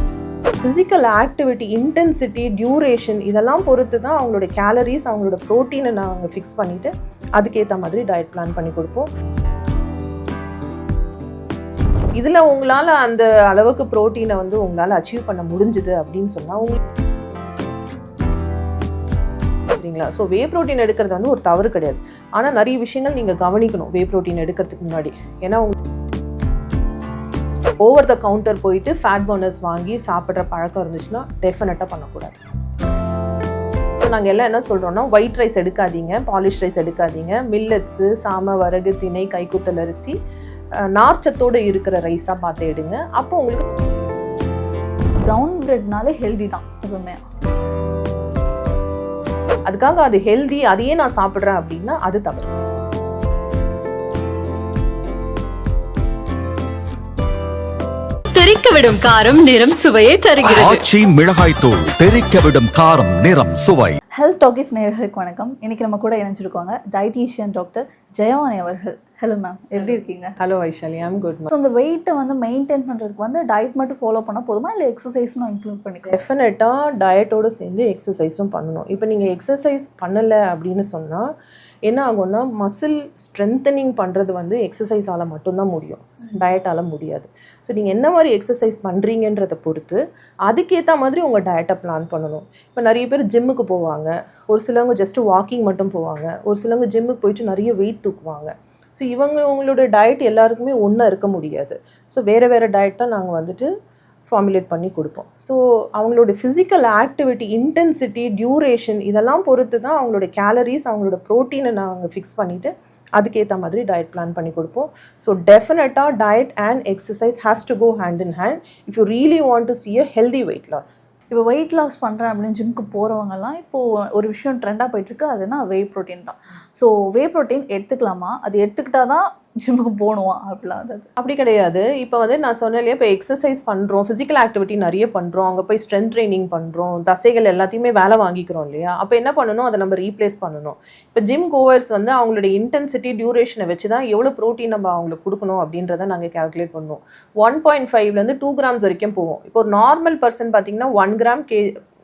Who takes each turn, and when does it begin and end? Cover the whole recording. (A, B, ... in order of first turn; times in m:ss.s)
0:00.6-0:09.1 A
0:12.2-0:16.8 A
0:19.7-0:25.8 A
0:27.8-0:32.4 A
0:34.0-0:40.2 A
0:40.8-0:43.6 A
0:45.2-0:47.2 B
0:49.7-0:52.5 A
0:58.3-1:00.8 C
1:00.4-1:04.0 D
1:04.2-1:10.4 B
1:09.8-1:11.5 A
1:11.5-1:16.2 B
1:16.1-1:21.3 A
1:21.9-1:43.7 A
1:44.3-2:01.0 A
2:01.3-2:11.1 B
2:11.2-2:31.8 A